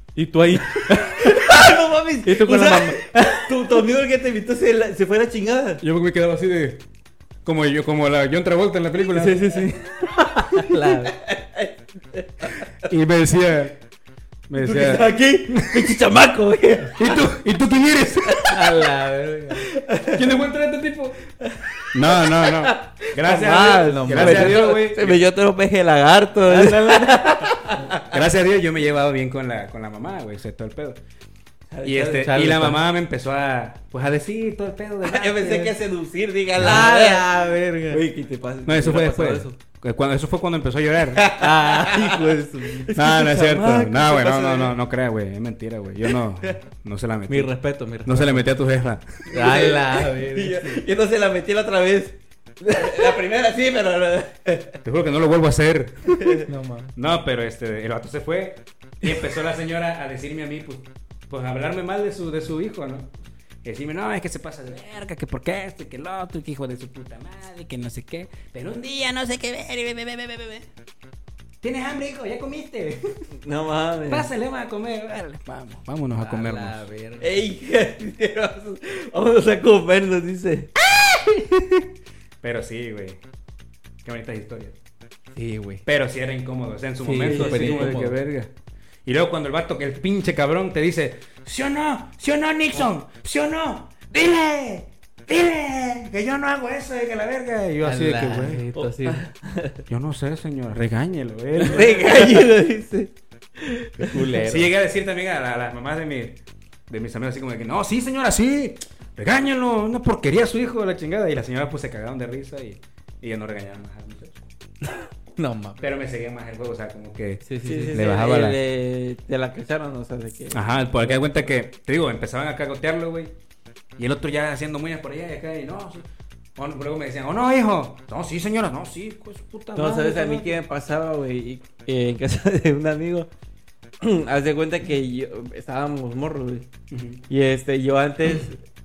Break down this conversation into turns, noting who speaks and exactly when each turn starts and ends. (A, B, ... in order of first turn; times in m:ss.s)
0:00.2-0:01.7 A
0:00.9-0:05.8 B
0:02.2-0:03.4 A
0:05.8-0:06.8 C
0:07.4-0:09.5 C
0:09.1-0:11.2 A
0:11.0-0:12.7 B
0:12.8-0:13.8 C
0:14.5-0:16.0 C
0:14.6-0:17.1 B
0:16.9-0:18.6 C
0:18.5-0:19.6 A
0:19.6-0:20.3 B
0:20.1-0:21.2 C
0:21.4-0:28.2 B
0:21.9-0:25.2 C
0:23.4-0:24.6 A
0:26.5-0:27.6 A
0:28.0-0:31.0 C
0:31.7-0:32.4 B
0:31.8-0:35.8 C
0:32.2-0:32.8 A
0:35.0-0:39.6 B
0:36.6-0:38.0 A
0:38.7-0:41.2 C
0:41.2-0:44.8 B
0:41.3-0:42.9 A
0:42.9-0:49.2 C
0:47.3-0:48.5 A
0:49.3-0:50.8 A
0:49.3-0:54.8 B
0:54.8-0:56.4 C
0:56.1-0:56.5 B
0:56.5-0:56.9 A
0:57.0-1:03.1 C
1:03.6-1:10.7 C
1:11.6-1:13.2 C
1:13.4-1:14.3 B
1:14.1-1:16.8 C
1:16.2-1:17.4 A
1:17.2-1:20.7 B
1:20.9-1:21.8 C
1:22.4-1:23.2 C
1:24.0-1:24.8 C
1:25.4-1:25.8 A
1:25.9-1:28.5 C
1:27.0-1:28.2 A
1:27.2-1:28.0 B
1:29.1-1:38.7 C
1:37.8-1:39.2 A
1:39.0-1:39.8 B
1:39.9-1:42.5 C
1:41.6-1:44.2 B
1:44.0-1:44.7 A
1:44.4-1:54.4 C
1:55.4-1:55.8 A
1:55.8-1:58.6 C
1:57.4-1:58.0 A
1:57.6-2:01.3 B
2:00.5-2:03.3 C
2:04.0-2:10.6 C
2:09.8-2:13.3 B
2:14.0-2:16.7 B
2:16.9-2:17.2 C
2:17.3-2:18.6 B